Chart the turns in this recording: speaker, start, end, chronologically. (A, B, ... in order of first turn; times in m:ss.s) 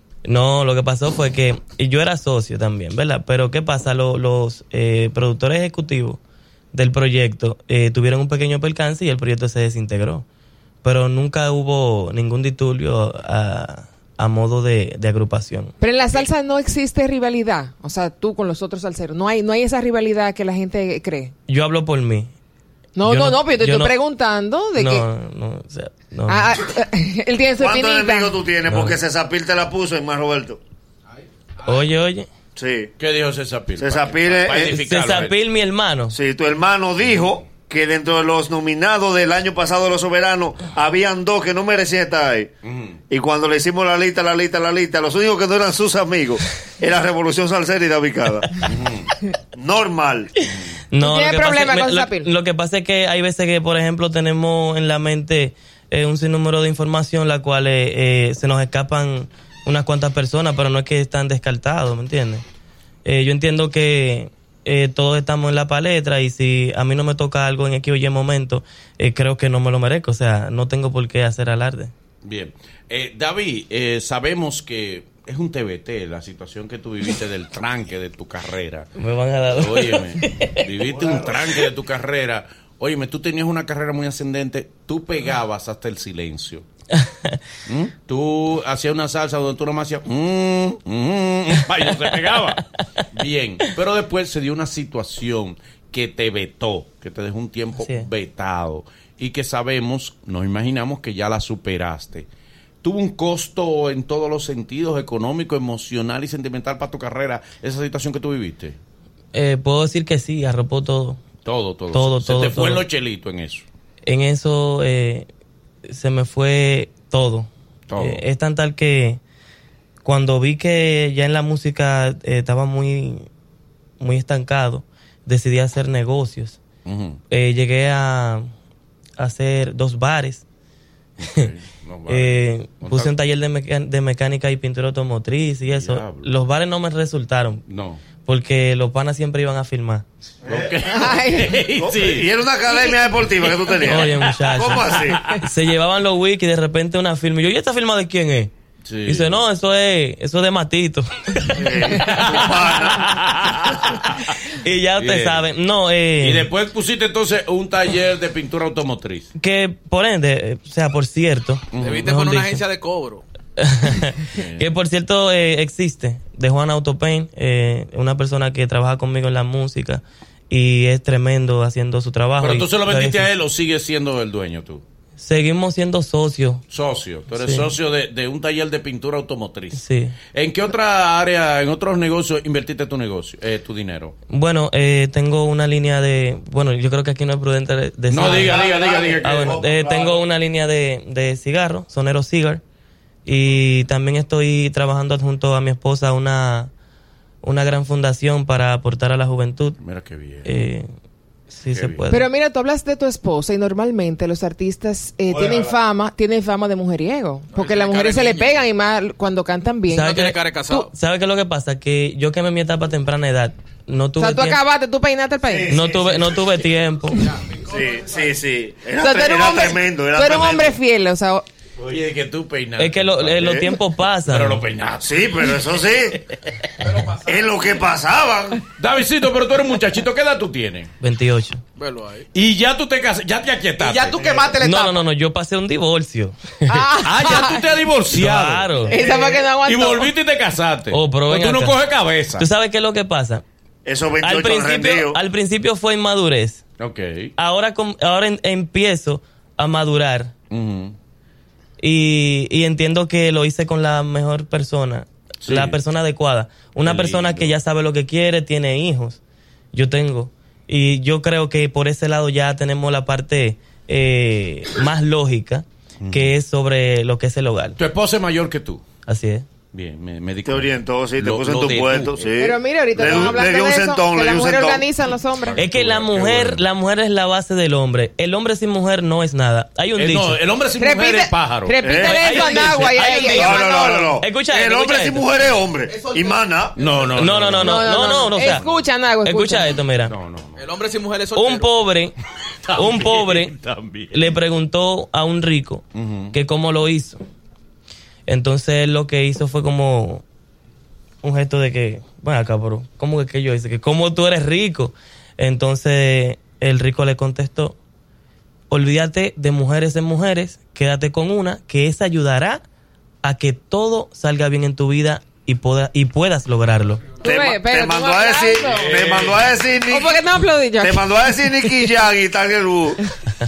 0:00.2-0:06.2 A
0:06.7-0:10.2 A
0:10.8-0:15.7 A
0:15.8-0:21.3 B
0:21.5-0:22.3 A
0:23.0-0:25.0 B
0:23.0-0:23.9 A
0:24.8-0:26.5 A
0:26.3-0:28.3 B
0:27.6-0:30.6 C
0:28.7-0:28.9 A
0:31.6-0:32.3 A
0:32.6-0:32.9 C
0:33.0-0:35.4 D
0:33.8-0:34.8 C
0:34.8-0:36.2 A
0:36.1-0:42.5 C
0:42.6-0:43.0 D
0:43.1-0:48.6 C
0:48.6-0:49.1 D
0:49.5-0:50.3 C
0:50.9-1:02.4 A
0:51.0-0:52.3 B
1:03.0-1:11.9 A
1:12.2-1:18.9 D
1:19.0-1:20.6 A
1:19.5-1:26.6 D
1:21.0-1:21.4 C
1:27.0-1:27.4 A
1:27.7-1:42.3 D
1:32.1-1:32.6 A
1:37.8-1:38.1 A
1:42.8-1:48.8 D
1:49.3-1:51.2 A
1:51.4-1:53.6 D
1:51.9-1:52.8 A
1:54.0-1:55.3 A
1:55.8-1:59.2 A
1:57.9-1:58.2 D
2:00.0-2:03.3 A
2:04.0-2:06.6 A
2:06.8-2:07.2 D
2:07.3-2:08.5 A
2:09.2-2:10.4 A
2:11.2-2:13.1 D
2:12.1-2:17.6 A
2:15.7-2:16.3 D
2:17.7-2:18.0 D
2:18.2-2:20.0 A
2:20.5-2:22.3 D
2:20.5-2:20.7 C
2:20.9-2:21.7 B
2:21.8-2:25.2 C
2:23.8-2:28.5 A
2:25.0-2:25.4 D
2:28.8-2:29.4 D
2:29.0-2:32.4 A
2:31.6-2:33.9 C
2:32.0-2:34.4 D
2:34.5-2:36.5 A
2:35.0-2:35.4 D
2:36.2-2:39.3 D
2:39.4-2:42.6 A
2:41.7-2:42.1 D
2:41.8-2:43.2 E
2:43.6-2:53.3 A
2:44.3-2:44.7 D
2:52.4-2:54.8 D
2:55.2-2:56.6 A
2:56.7-3:04.2 D
2:57.3-2:57.7 A
2:59.7-3:00.2 A
3:04.3-3:08.6 A
3:08.1-3:09.6 D
3:08.2-3:10.2 C
3:09.2-3:12.6 A
3:13.2-3:16.7 A
3:17.4-3:19.8 A
3:19.8-3:20.5 D
3:20.4-3:20.9 A
3:21.5-3:22.3 A
3:21.7-3:22.1 D
3:22.1-3:30.2 B
3:25.3-3:25.8 C
3:27.5-3:28.6 E
3:29.9-3:34.6 A
3:30.0-3:30.9 E
3:34.2-3:35.9 B
3:35.5-3:36.3 C
3:35.7-3:37.3 A
3:37.2-3:38.2 E
3:37.6-3:40.8 C
3:39.0-3:41.4 B
3:41.8-3:43.6 D
3:42.8-3:44.6 A
3:43.4-3:43.6 C
3:44.2-3:45.2 D
3:45.0-3:46.2 C
3:46.8-3:47.5 E
3:47.2-3:48.6 C
3:48.8-3:50.9 D
3:51.0-3:51.6 A
3:51.8-3:52.3 E
3:52.3-3:54.2 D
3:53.8-3:55.0 E
3:54.6-3:56.9 A
3:56.7-3:57.7 B
3:57.0-4:02.5 D
3:58.1-3:59.0 A
3:58.9-4:00.1 B
3:59.0-3:59.4 E
4:00.9-4:01.8 A
4:02.4-4:03.4 A
4:03.8-4:05.2 C
4:04.2-4:06.6 A
4:06.8-4:07.3 D
4:07.4-4:10.3 A
4:10.5-4:10.9 D
4:11.8-4:19.2 A
4:15.4-4:15.8 D
4:16.8-4:17.5 D
4:19.7-4:27.8 A
4:26.0-4:26.3 D
4:27.8-4:28.8 D
4:29.0-4:29.5 A
4:29.7-4:32.3 D
4:30.4-4:34.8 C
4:32.4-4:35.6 B
4:33.0-4:33.3 D
4:35.4-4:36.6 D
4:35.6-4:40.4 A
4:40.0-4:41.8 D
4:40.8-4:44.2 B
4:41.8-4:42.4 C
4:41.9-4:45.2 A
4:42.3-4:42.8 D
4:43.2-4:46.7 C
4:45.9-4:46.9 E
4:46.8-4:48.8 D
4:47.2-4:48.6 A
4:47.6-4:49.8 B
4:49.2-4:50.1 A
4:50.1-4:50.6 D
4:50.6-4:51.7 E
4:51.3-4:52.1 A
4:52.6-4:54.3 D
4:52.7-4:53.5 A
4:54.1-4:57.2 A
4:55.9-4:56.4 D
4:58.3-5:00.2 A
5:01.2-5:07.8 A
5:08.7-5:12.6 A
5:13.2-5:17.1 A
5:17.2-5:20.2 C
5:17.2-5:18.9 B
5:18.7-5:19.4 D
5:19.9-5:21.8 B
5:20.8-5:23.0 C